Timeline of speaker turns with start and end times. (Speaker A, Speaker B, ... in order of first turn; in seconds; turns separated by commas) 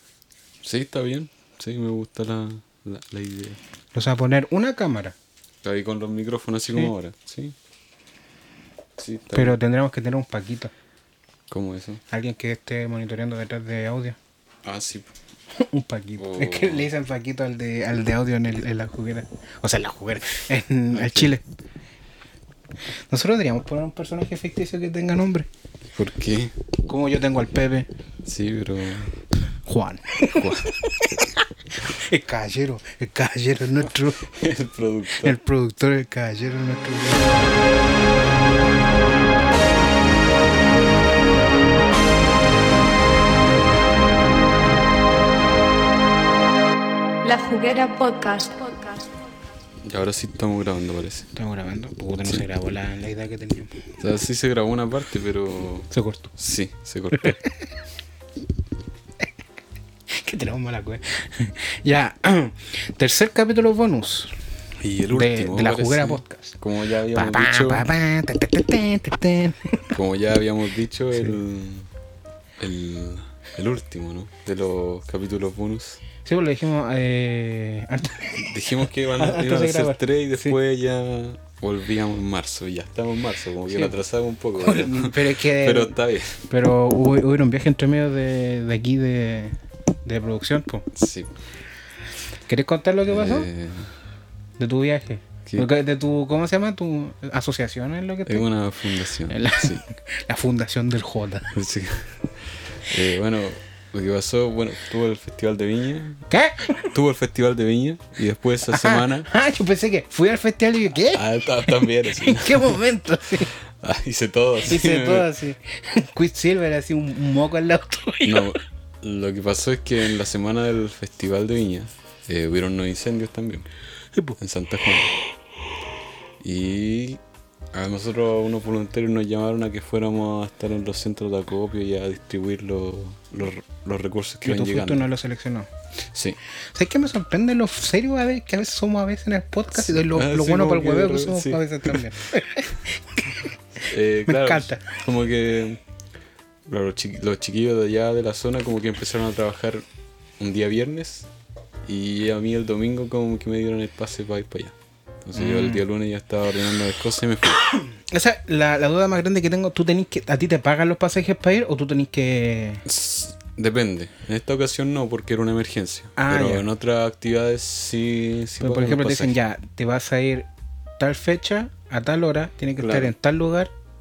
Speaker A: 0.6-3.6, Speaker B: 3.9-5.2, Speaker A: 5.6-7.6, Speaker A: 9.0-9.6, Speaker B: 9.3-10.7, Speaker A: 11.5-12.0, Speaker B: 12.1-14.2, Speaker A: 14.6-15.1, Speaker B: 15.6-21.4, Speaker A: 16.2-16.9, Speaker A: 20.9-21.3, Speaker B: 23.1-25.5, Speaker A: 25.9-26.6, Speaker B: 26.9-27.9, Speaker A: 28.2-29.1, Speaker B: 29.7-34.2, Speaker A: 34.3-35.4, Speaker B: 35.1-37.6, Speaker C: 47.2-49.4, Speaker A: 49.8-51.3, Speaker B: 51.4-53.8, Speaker A: 54.0-57.4, Speaker B: 55.9-56.3, Speaker B: 57.2-57.5, Speaker B: 60.1-64.4, Speaker A: 64.8-67.9, Speaker B: 65.1-66.6, Speaker B: 67.1-69.9, Speaker A: 69.9-71.9, Speaker A: 72.6-76.0, Speaker B: 76.2-80.6, Speaker A: 78.3-86.4, Speaker B: 84.6-86.0, Speaker B: 86.5-90.8, Speaker A: 90.9-91.3, Speaker B: 92.5-93.5, Speaker A: 93.1-93.9, Speaker B: 94.6-98.5, Speaker A: 98.3-99.8, Speaker B: 99.3-101.5, Speaker A: 101.5-102.2, Speaker A: 102.8-106.2, Speaker B: 106.3-106.9, Speaker A: 106.9-109.3, Speaker B: 108.7-113.5, Speaker A: 111.1-112.8, Speaker A: 113.8-115.3, Speaker B: 114.6-118.6, Speaker A: 118.2-123.7, Speaker A: 124.4-125.1, Speaker A: 126.4-127.2, Speaker A: 127.7-135.1, Speaker B: 134.4-135.7, Speaker A: 136.1-136.4, Speaker B: 136.7-143.5, Speaker A: 139.7-142.1, Speaker A: 143.9-145.8, Speaker B: 144.3-144.8, Speaker A: 146.7-149.8, Speaker A: 150.4-151.3, Speaker A: 151.9-157.6, Speaker B: 155.3-155.8, Speaker B: 157.7-162.8, Speaker A: 162.8-169.3, Speaker B: 166.2-166.7, Speaker B: 168.6-170.5, Speaker B: 171.0-173.7, Speaker A: 172.8-173.1